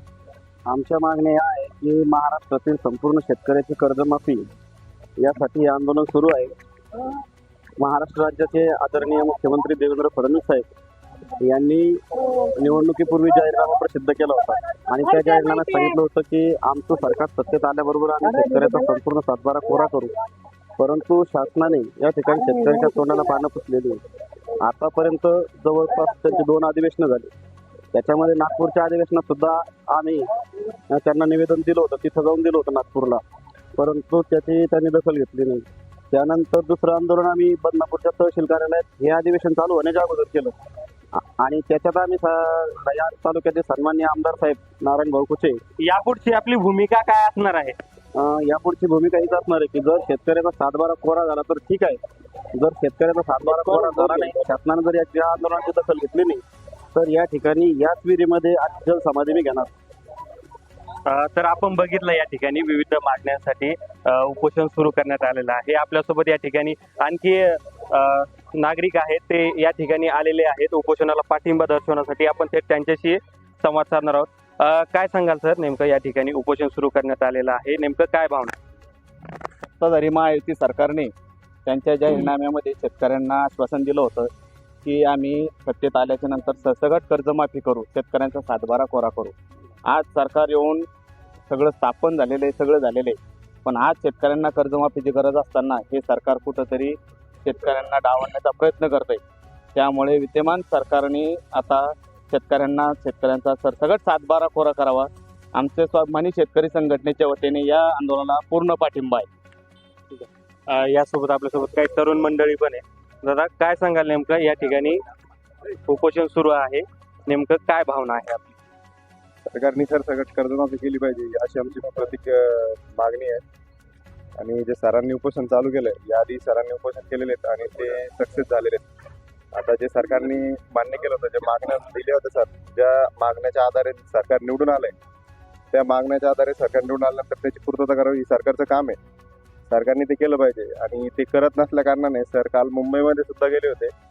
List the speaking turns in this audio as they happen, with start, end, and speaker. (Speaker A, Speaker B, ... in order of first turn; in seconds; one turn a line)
Speaker A: 0.7-4.5
Speaker A: 5.2-6.5
Speaker A: 7.8-10.6
Speaker A: 11.4-20.1
Speaker A: 20.8-24.0
Speaker A: 24.6-27.3
Speaker A: 27.9-30.2
Speaker A: 30.9-33.2
Speaker A: 33.8-40.5
Speaker A: 41.4-45.6
Speaker B: 45.8-47.8
Speaker A: 48.1-52.0
Speaker A: 52.5-56.4
Speaker B: 53.4-54.4
Speaker A: 56.9-59.7
Speaker B: 61.0-78.5
Speaker C: 79.8-81.1
Speaker C: 81.7-84.3
Speaker C: 84.8-90.9
Speaker C: 91.5-99.2
Speaker C: 99.7-109.3
Speaker B: 110.1-115.0
Speaker B: 115.8-118.5
Speaker D: 119.5-123.4
Speaker D: 124.4-128.9
Speaker D: 129.5-134.9
Speaker D: 135.7-139.0
Speaker D: 139.7-143.9